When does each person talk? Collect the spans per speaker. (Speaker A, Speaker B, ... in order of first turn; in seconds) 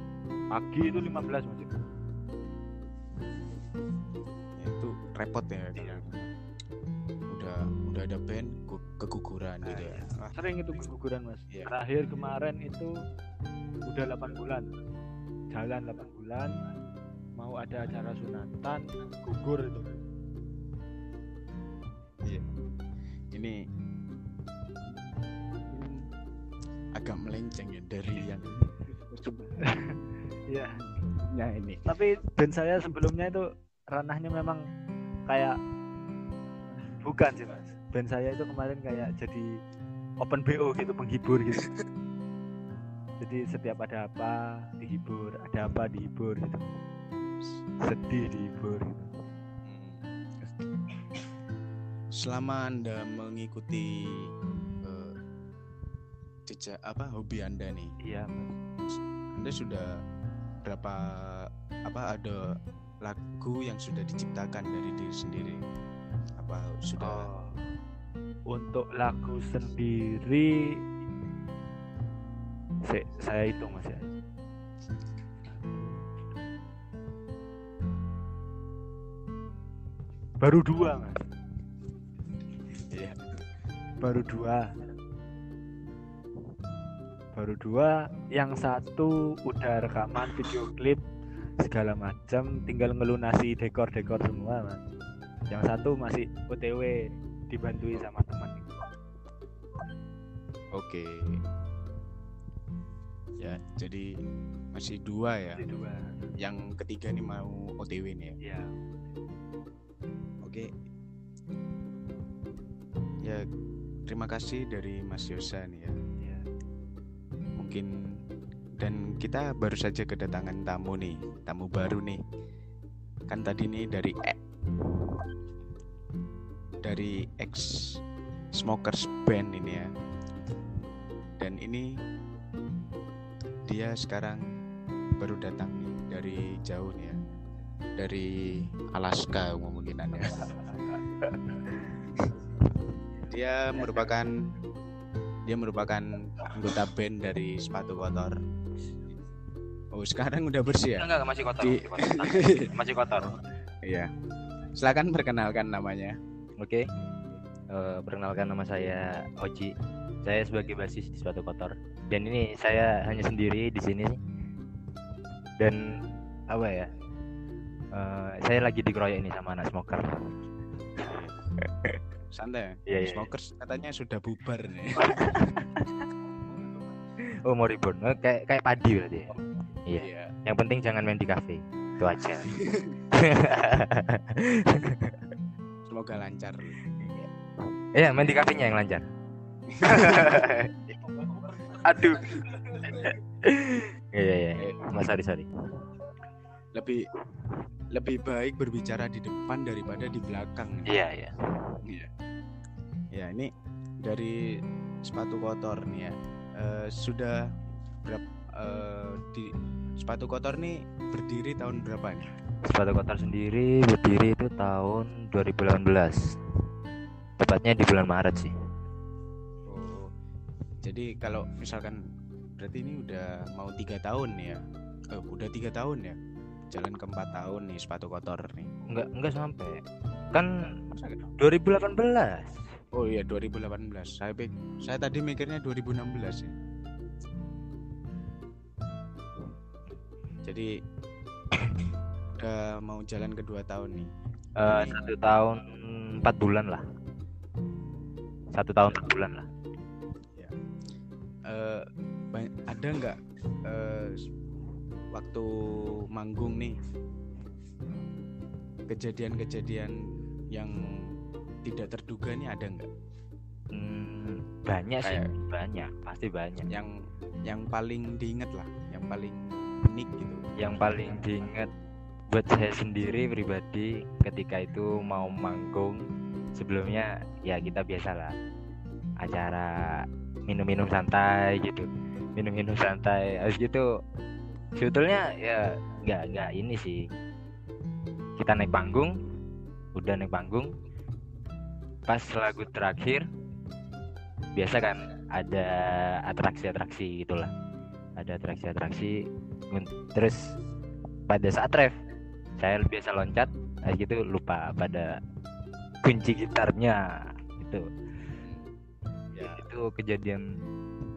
Speaker A: 0.5-1.7, 5.8-6.1, 9.7-12.9, 13.9-14.7, 15.5-16.5, 17.4-20.0, 29.6-30.0, 30.5-30.8, 31.9-34.6, 35.3-35.5, 37.0-39.5, 40.2-41.7, 43.2-46.7, 47.8-49.1, 58.0-58.6, 67.0-67.5, 68.5-70.7, 72.8-74.1, 75.5-76.0, 80.4-81.2, 84.0-84.6, 87.3-91.0, 91.6-94.8, 95.5-98.8, 105.5-106.2, 108.4-108.8, 116.2-116.4
Speaker B: 4.6-6.2, 7.3-10.3, 25.7-26.1, 27.0-29.9, 30.8-31.8, 41.6-41.8, 49.7-50.7, 52.2-53.9, 54.9-55.1, 56.5-57.9, 58.9-59.9, 60.6-62.5, 63.0-65.6, 66.4-67.3, 82.9-83.2, 100.8-101.3, 103.4-104.1, 104.7-105.7, 106.4-108.4, 110.4-110.7, 114.1-116.0, 117.6-117.9, 118.8-122.2, 123.3-124.4, 126.8-128.0, 128.6-129.9, 131.4-131.9, 133.7-134.4, 135.2-137.2, 138.0-140.5, 143.3-144.3, 145.5-148.4, 149.9-151.1, 151.6-152.7, 153.2-154.1, 154.8-156.2, 171.0-171.4, 172.3-175.6, 180.0-180.3, 182.5-183.0, 185.8-186.8, 189.7-190.6, 196.8-197.0, 197.9-200.9, 201.8-202.1, 203.1-203.5, 204.0-204.4, 205.1-207.4, 208.0-212.2, 219.7-220.1, 220.8-222.0, 222.6-224.6, 225.1-226.2, 226.7-228.7, 230.9-231.2, 233.0-236.5, 240.4-240.7, 242.4-244.1, 244.7-245.1, 251.5-254.2, 255.1-256.7, 258.9-260.0, 260.6-261.1, 261.6-262.9, 265.0-265.3, 267.5-271.2, 308.4-308.7, 309.3-309.6
Speaker C: 151.0-153.3, 156.6-156.8, 157.7-159.7, 160.2-164.2, 166.5-166.9, 167.9-170.1, 172.9-173.3, 175.1-175.8, 177.4-182.5, 183.1-185.2, 187.0-187.3, 187.9-189.1, 189.8-190.7, 191.6-195.5, 200.9-201.3, 212.7-216.2, 217.4-218.5, 228.9-229.8, 231.4-232.6, 244.6-246.8, 248.6-249.5, 263.7-266.7, 270.6-271.7, 272.3-276.1, 276.6-278.3, 279.2-283.9, 284.8-287.0, 288.4-289.2, 290.0-290.7, 292.1-293.2, 294.6-297.5, 298.2-299.2, 299.7-300.5, 301.3-302.0, 302.6-305.1, 306.0-307.0, 307.6-307.9, 309.4-310.4